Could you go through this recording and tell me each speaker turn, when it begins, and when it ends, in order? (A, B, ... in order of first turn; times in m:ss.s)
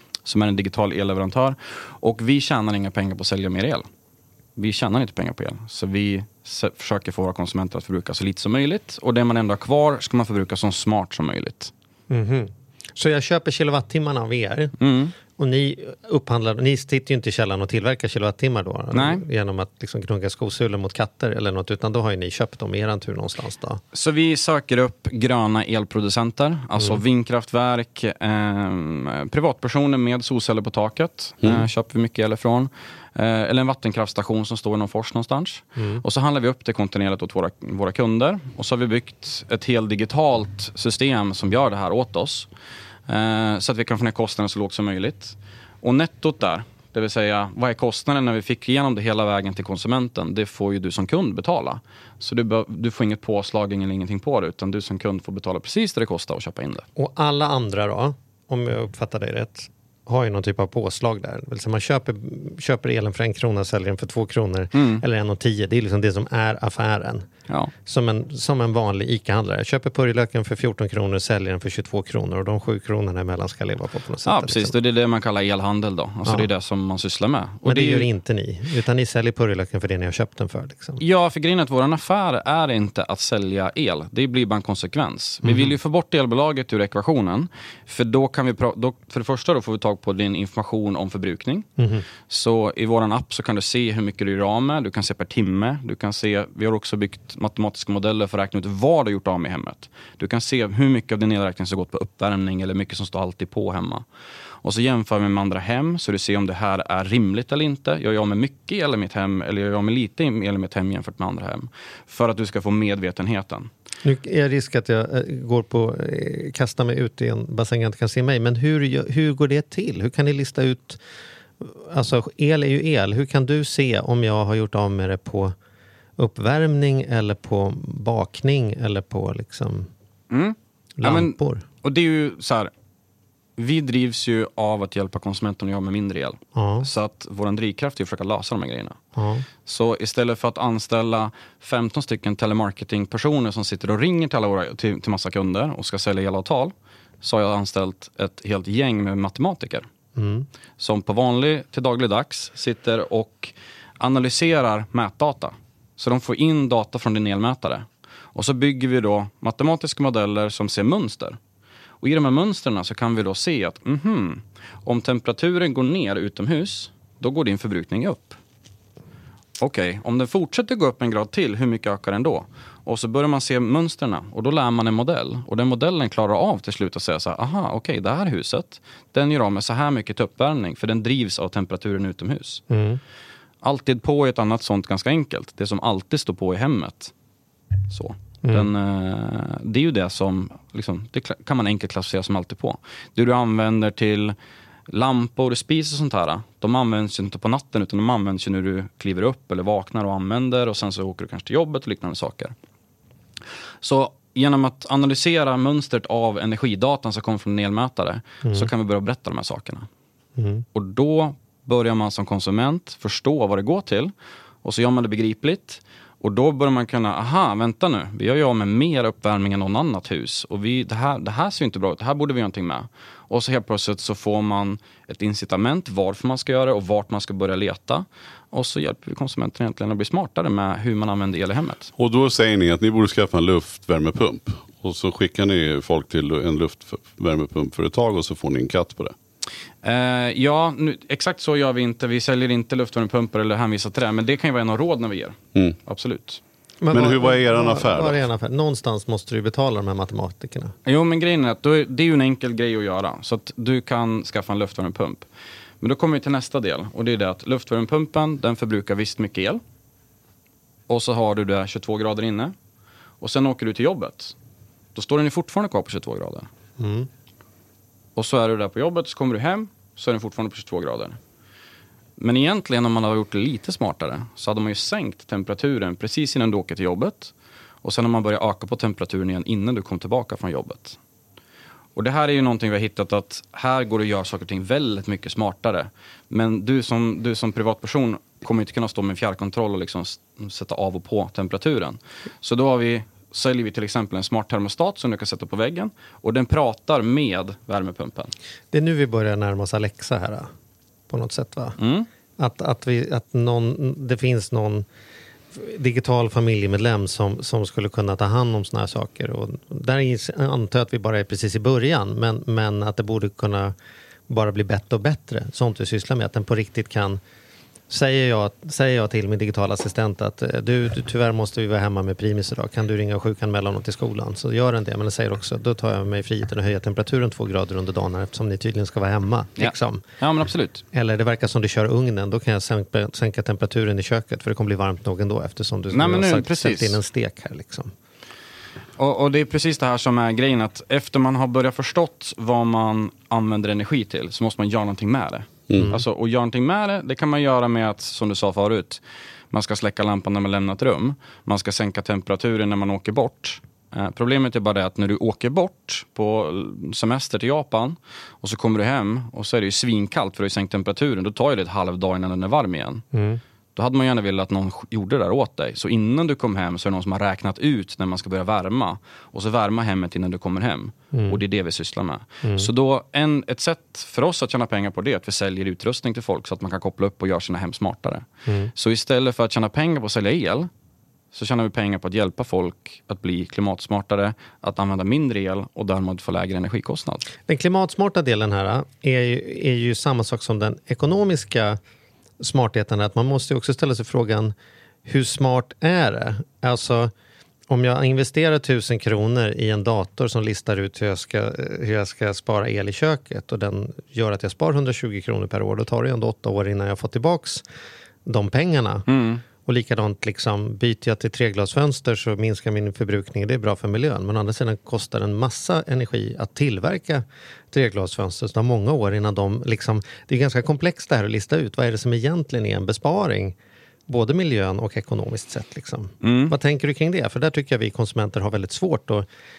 0:00.2-0:03.8 A
0:04.6-0:11.7 A
0:12.1-0:23.8 B
0:14.8-0:15.1 A
0:18.9-0:19.2 A
0:23.9-0:42.5 A
0:35.8-0:36.0 B
0:43.1-0:56.8 A
0:57.0-1:07.3 B
1:04.7-1:05.0 A
1:07.8-1:14.7 B
1:14.2-1:18.1 A
1:17.6-1:21.0 B
1:21.0-1:31.7 A
1:25.4-1:25.7 B
1:31.8-1:32.0 B
1:32.3-1:44.0 A
1:44.6-1:53.7 A
1:54.0-2:01.0 B
2:01.6-2:05.5 B
2:06.2-2:09.9 B
2:10.3-2:12.7 A
2:11.0-2:11.6 B
2:13.6-2:19.0 A
2:16.5-2:16.9 B
2:19.2-2:19.4 B
2:19.6-2:29.9 A
2:30.2-2:30.5 B
2:30.8-2:41.4 A
2:42.0-2:48.4 A
2:49.6-3:02.6 A
3:02.7-3:03.0 B
3:03.6-3:07.1 A
3:07.9-3:14.4 A
3:08.4-3:08.7 B
3:14.9-3:22.5 A
3:23.8-3:29.9 A
3:28.4-3:28.7 B
3:30.4-3:30.6 B
3:30.7-3:34.1 A
3:34.6-3:51.9 A
3:52.0-3:59.1 C
3:59.8-4:06.4 A
4:06.8-4:10.7 B
4:06.9-4:08.2 C
4:10.8-4:15.3 A
4:15.8-4:19.6 A
4:20.9-4:22.5 A
4:23.2-4:24.3 A
4:24.9-4:26.5 A
4:26.8-4:27.1 B
4:28.2-4:31.2 A
4:32.2-4:41.0 A
4:42.0-4:58.3 A
4:58.7-5:00.5 B
5:01.1-5:01.8 B
5:01.8-5:02.1 A
5:02.4-5:04.8 B
5:05.5-5:13.7 B
5:14.3-5:17.2 B
5:17.9-5:30.0 B
5:29.6-5:30.8 A
5:30.9-5:37.9 B
5:35.9-5:37.0 A
5:39.0-6:03.0 A
5:45.7-5:46.0 B
6:03.1-6:03.4 B
6:03.7-6:20.7 A
6:11.1-6:11.4 B
6:12.4-6:12.7 B
6:18.5-6:18.7 B
6:21.3-6:27.3 A
6:27.5-6:31.8 B
6:32.4-6:34.5 B
6:35.1-6:37.1 B
6:37.7-6:47.6 B
6:48.2-6:49.0 B
6:49.1-6:49.4 A
6:49.6-7:03.5 B
7:04.1-7:09.2 B
7:06.2-7:06.5 A